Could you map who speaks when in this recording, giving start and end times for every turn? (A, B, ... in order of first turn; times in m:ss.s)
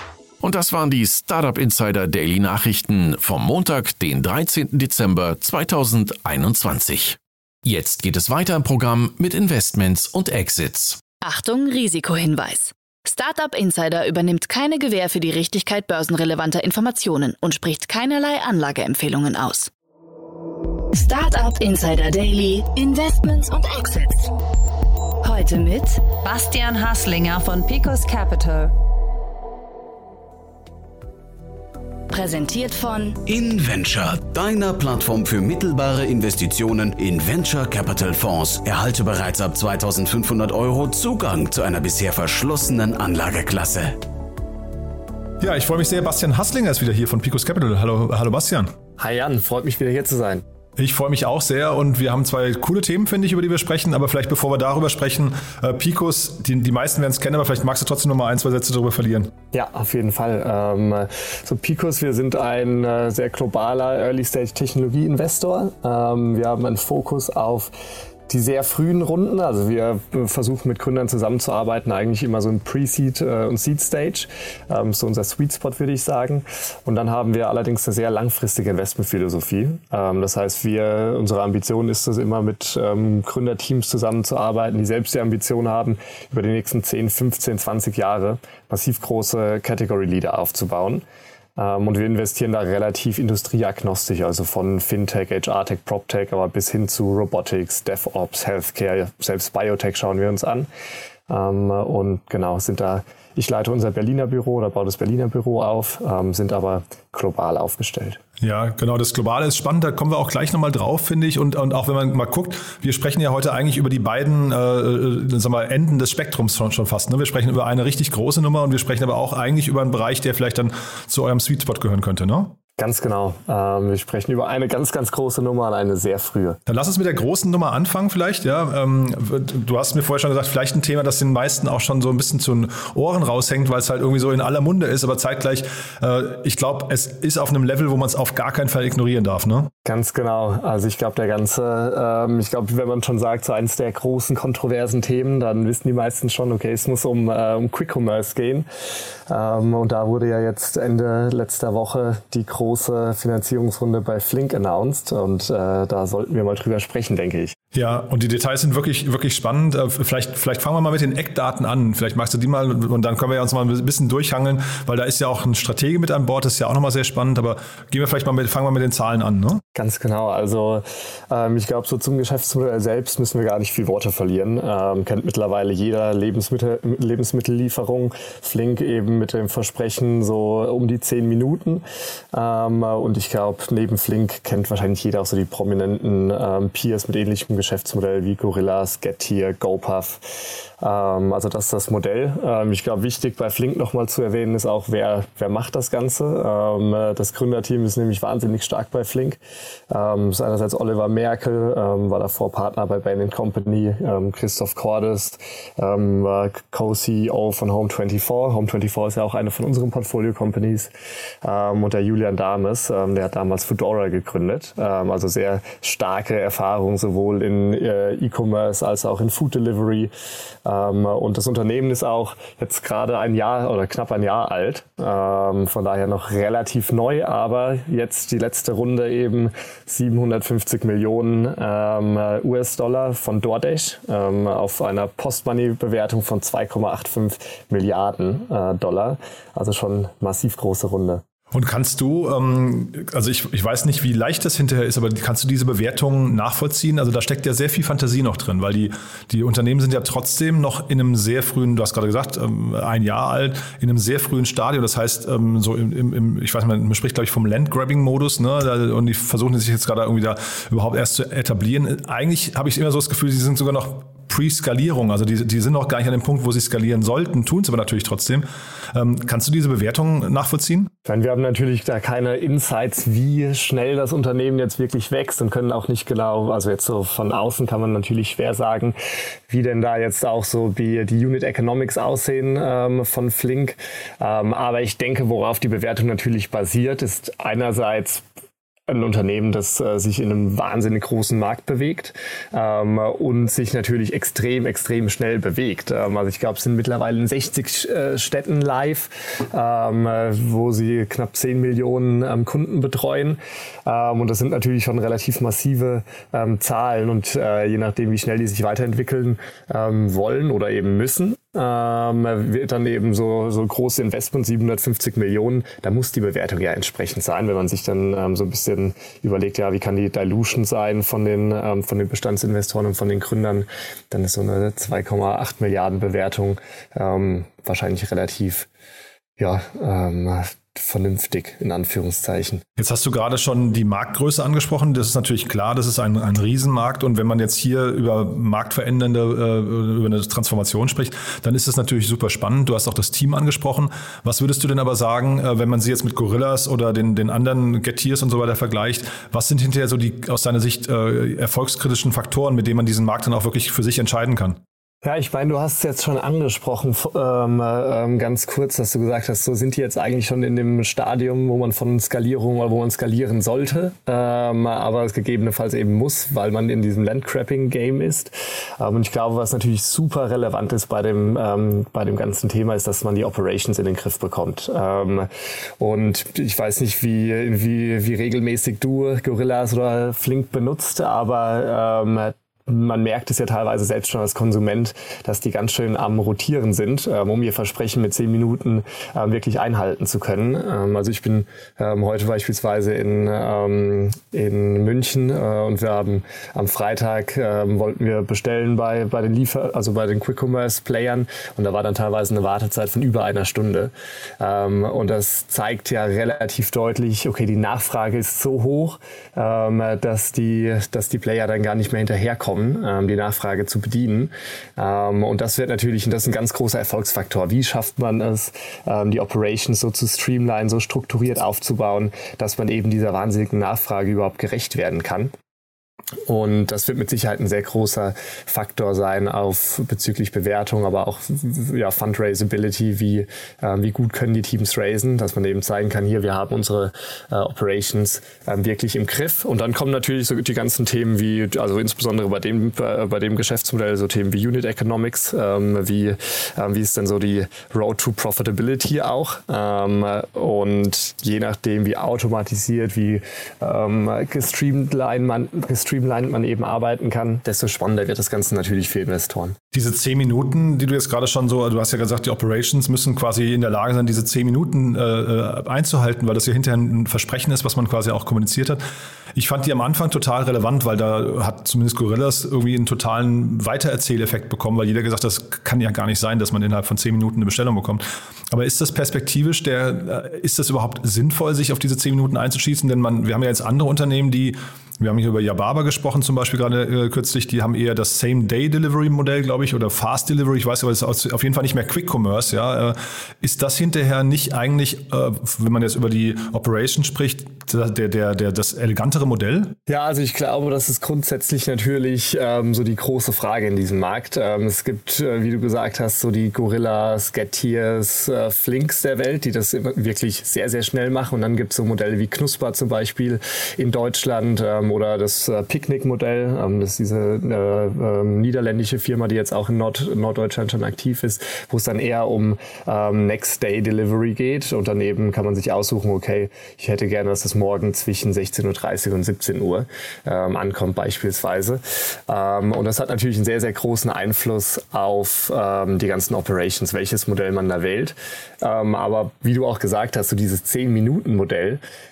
0:00.4-0:11.0 A
0:11.2-0:19.7 B
0:20.9-0:24.3 B
0:25.2-0:26.1 B
0:26.2-0:28.7 C
0:32.1-0:33.2 B
0:33.3-0:44.0 D
0:45.4-0:48.7 E
0:49.0-0:50.4 F
0:50.8-0:59.3 E
0:59.5-1:07.7 F
1:08.3-1:31.0 F
1:31.6-1:40.7 F
1:41.3-1:48.2 F
1:48.4-2:02.6 E
2:02.8-2:06.6 F
2:06.7-2:19.7 E
2:19.8-2:28.7 F
2:29.3-2:37.6 F
2:37.7-2:49.6 E
2:49.8-3:10.3 F
3:10.8-3:19.4 F
3:19.9-3:30.9 F
3:31.4-3:40.1 F
3:40.6-4:01.2 F
4:01.5-4:30.9 E
4:31.1-4:39.0 F
4:39.5-4:48.3 F
4:48.9-5:28.7 F
5:29.4-5:32.6 F
5:32.8-5:54.6 E
5:55.0-6:15.3 F
6:15.8-7:05.3 F
7:06.3-7:39.6 F
7:39.7-7:48.8 E
7:49.4-8:19.8 E
8:19.9-9:01.8 F